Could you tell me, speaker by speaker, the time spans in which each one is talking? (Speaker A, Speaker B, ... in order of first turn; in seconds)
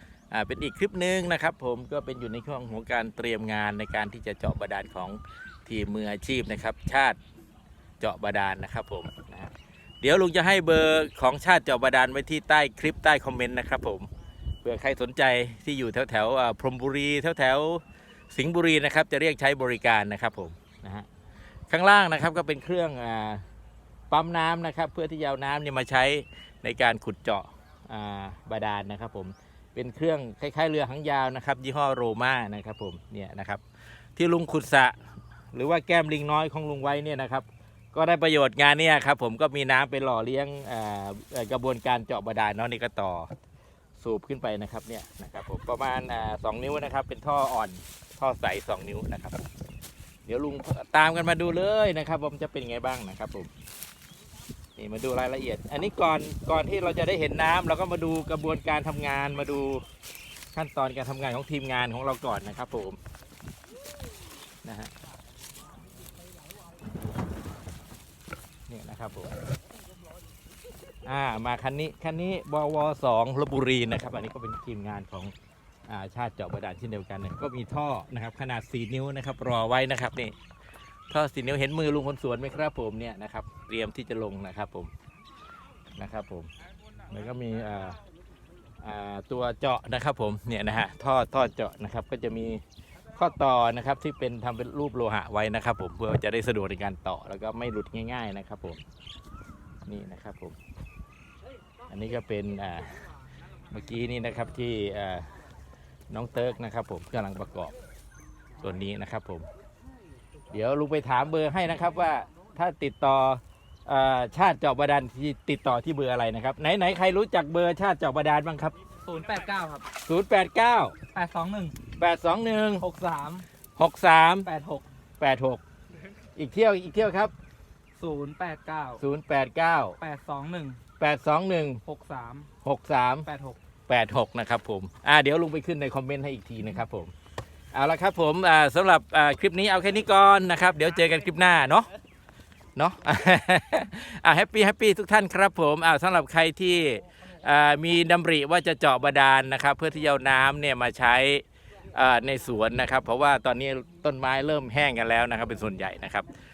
Speaker A: 0.3-7.2, 8.0-14.1, 14.6-21.1, 21.7-23.4, 24.1-33.6, 34.1-34.9, 35.5-43.3, 44.0-49.4, 50.2-53.5, 54.8-59.8, 60.5-63.0, 64.6-64.9, 68.7-69.3, 71.0-75.3, 75.9-80.3, 81.1-84.9, 86.0-86.5, 87.1-88.0, 88.8-92.6, 93.1-98.8, 99.8-100.6, 101.9-103.1, 103.7-105.4, 106.1-107.7, 108.6-109.5, 110.5-118.7, 120.0-121.0, 121.9-122.8, 123.8-124.5, 125.2-125.6, 126.3-127.3, 129.0-130.0, 131.0-131.8, 132.6-133.3, 133.9-137.1, 137.7-141.9, 142.8-156.3
Speaker B: 119.0-119.9, 121.1-121.8, 122.8-123.5, 124.4-124.8, 128.0-129.0, 130.0-130.8, 131.8-132.5, 133.2-133.6